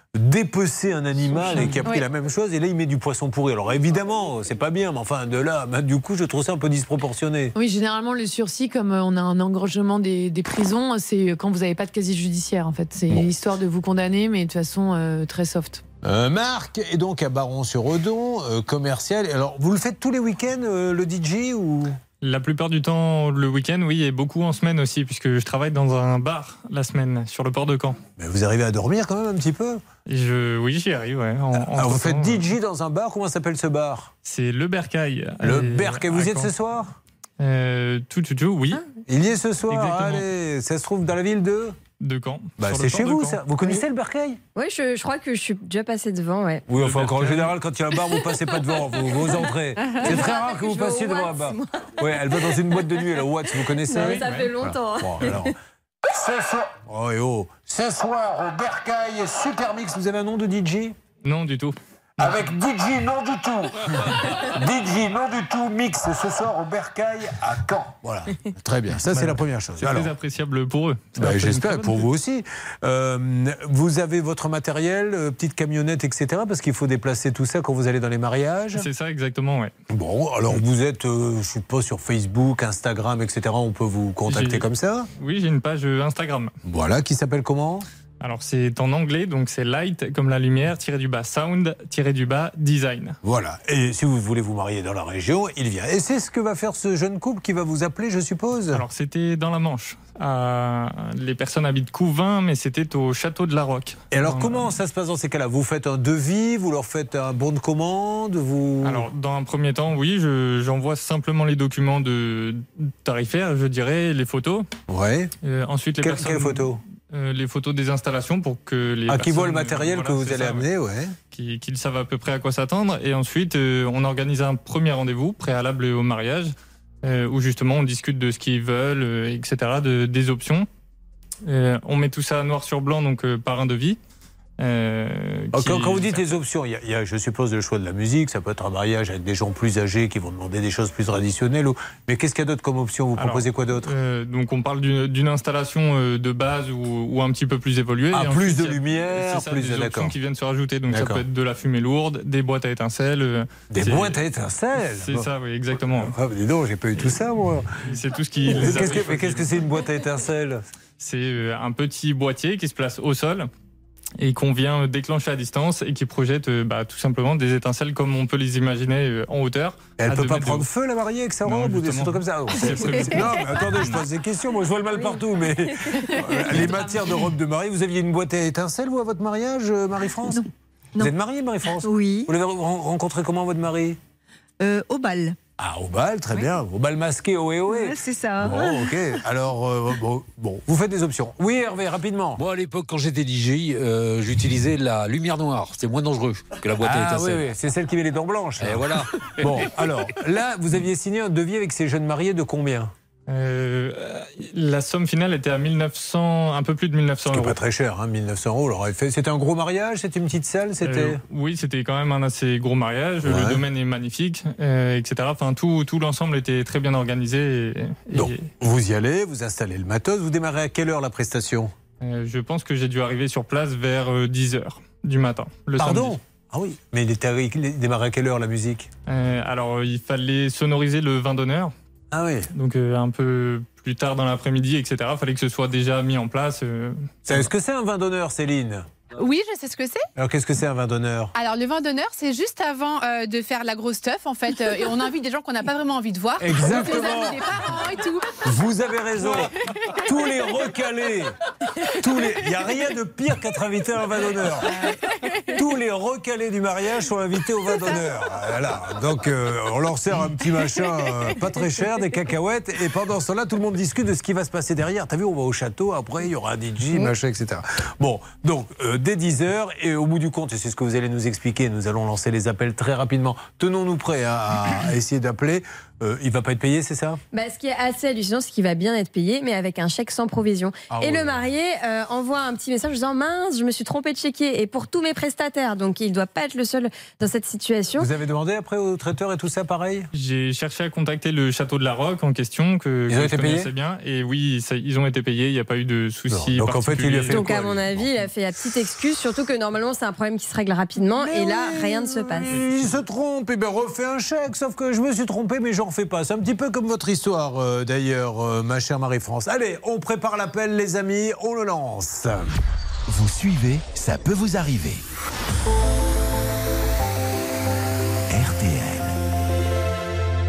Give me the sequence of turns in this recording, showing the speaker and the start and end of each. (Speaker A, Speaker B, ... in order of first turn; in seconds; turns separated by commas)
Speaker A: 0.1-7.5, Speaker B: 7.5-15.8, Speaker A: 16.0-22.0, Speaker C: 22.2-28.0, Speaker A: 28.2-29.8, Speaker C: 30.1-32.4, Speaker A: 31.5-34.1, Speaker C: 34.2-36.5, Speaker A: 35.4-36.9, Speaker C: 37.4-38.8, Speaker A: 39.1-41.8, Speaker C: 39.7-40.2, Speaker C: 42.0-43.4, Speaker A: 42.6-44.4, Speaker D: 44.5-46.6, Speaker A: 46.7-55.5, Speaker C: 46.7-47.5, Speaker D: 49.8-51.6, Speaker D: 53.9-55.4, Speaker A: 56.1-61.0, Speaker C: 61.2-61.8, Speaker A: 62.2-70.1, Speaker C: 69.1-72.1, Speaker A: 71.2-78.8, Speaker C: 78.7-79.7, Speaker A: 79.9-85.1, Speaker C: 84.3-84.6, Speaker C: 85.2-86.5, Speaker A: 86.7-87.8, Speaker C: 88.2-93.2, Speaker A: 93.2-98.8, Speaker C: 98.7-104.7, Speaker A: 104.1-109.1, Speaker C: 108.8-114.7, Speaker A: 114.9-115.3, Speaker C: 115.4-120.7, Speaker A: 116.0-116.8, Speaker A: 119.1-121.1, Speaker C: 121.3-130.7, Speaker C: 131.4-134.0, Speaker C: 134.6-136.2, Speaker A: 135.5-143.9, Speaker C: 143.2-154.2, Speaker A: 148.1-150.1, Speaker A: 150.9-151.2, Speaker A: 153.7-155.3, Speaker C: 155.0-156.1, Speaker A: 155.8-157.8, Speaker C: 157.9-159.5, Speaker A: 158.5-160.6, Speaker C: 161.0-163.5, Speaker C: 164.2-170.7, Speaker A: 170.0-180.4, Speaker C: 171.4-174.0, Speaker E: 180.3-181.1, Speaker A: 181.0-184.0, Speaker E: 181.8-182.3, Speaker E: 184.6-185.4, Speaker A: 185.6-192.4, Speaker E: 187.7-188.9, Speaker F: 192.4-197.5, Speaker A: 196.8-202.9, Speaker F: 198.6-199.7, Speaker C: 203.3-207.6, Speaker A: 207.3-211.2, Speaker C: 210.8-218.4, Speaker A: 213.2-213.6, Speaker A: 218.1-221.7, Speaker C: 222.0-226.2, Speaker A: 225.8-228.9, Speaker C: 229.1-231.7, Speaker A: 232.1-232.5, Speaker C: 232.5-237.5, Speaker A: 237.2-238.8, Speaker G: 239.2-240.0, Speaker A: 240.2-241.3, Speaker G: 241.3-248.2, Speaker A: 246.4-247.4, Speaker A: 248.4-251.3, Speaker A: 252.0-254.8, Speaker A: 255.5-277.2, Speaker D: 277.3-288.1, Speaker A: 280.9-281.4, Speaker A: 288.0-290.1, Speaker C: 290.1-297.4, Speaker A: 293.1-293.7, Speaker A: 296.3-298.2, Speaker D: 297.3-302.5, Speaker A: 301.2-312.5, Speaker H: 313.1-315.0, Speaker H: 318.3-319.1